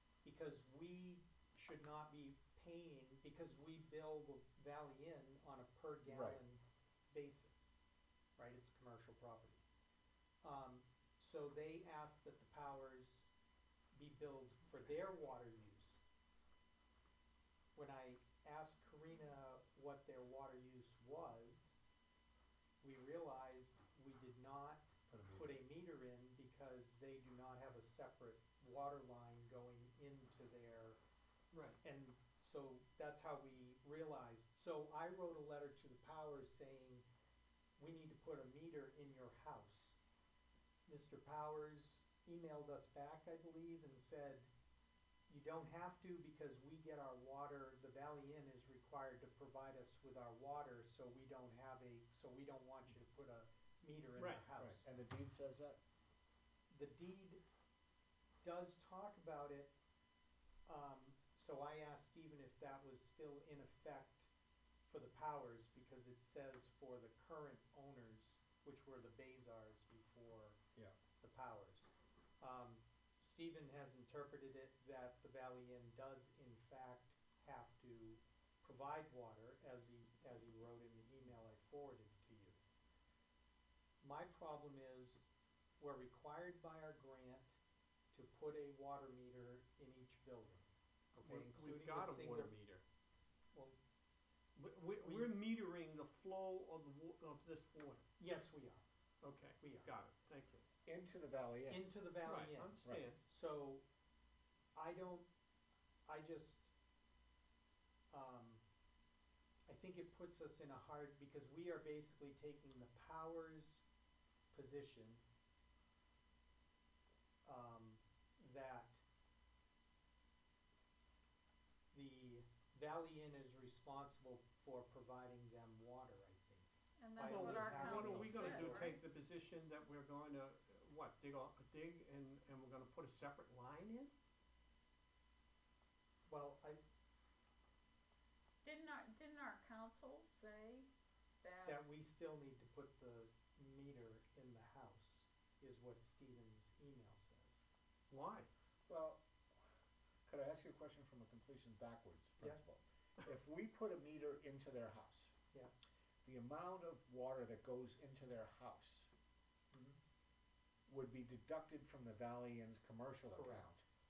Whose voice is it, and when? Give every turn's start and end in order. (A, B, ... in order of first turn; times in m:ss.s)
0:00.2-0:07.7 A
0:06.1-0:06.4 B
0:08.4-0:09.6 A
0:10.4-0:13.3 A
0:13.9-0:16.0 A
0:17.7-0:21.8 A
0:22.8-0:31.0 A
0:25.1-0:25.6 B
0:31.5-0:31.8 C
0:31.8-0:37.0 A
0:37.8-0:40.0 A
0:40.9-0:44.5 A
0:45.3-0:54.8 A
0:54.2-0:54.4 C
0:54.6-0:55.8 B
0:56.7-0:57.4 A
0:58.4-0:59.7 A
1:00.6-1:04.3 A
1:04.8-1:10.6 A
1:11.2-1:11.9 A
1:12.4-1:22.6 A
1:24.0-1:25.2 A
1:25.8-1:27.6 A
1:28.1-1:30.7 A
1:31.1-1:32.8 C
1:31.2-1:32.5 A
1:34.6-1:38.0 C
1:35.0-1:35.3 A
1:38.2-1:38.8 A
1:39.2-1:40.6 C
1:39.6-1:39.9 A
1:40.8-1:41.9 B
1:41.7-1:43.8 A
1:42.2-1:43.2 C
1:44.7-1:45.3 A
1:46.0-1:46.7 A
1:48.1-1:48.6 A
1:49.7-1:53.8 A
1:54.5-1:55.2 A
1:57.4-1:59.0 A
2:01.9-2:09.0 A
2:07.0-2:09.0 D
2:07.2-2:14.1 C
2:16.3-2:16.8 A
2:18.6-2:20.9 D
2:21.4-2:21.8 D
2:21.6-2:27.6 A
2:28.1-2:28.5 C
2:28.9-2:29.2 B
2:30.2-2:35.3 B
2:36.2-2:39.1 B
2:39.7-2:40.0 A
2:40.9-2:43.8 B
2:43.3-2:43.6 A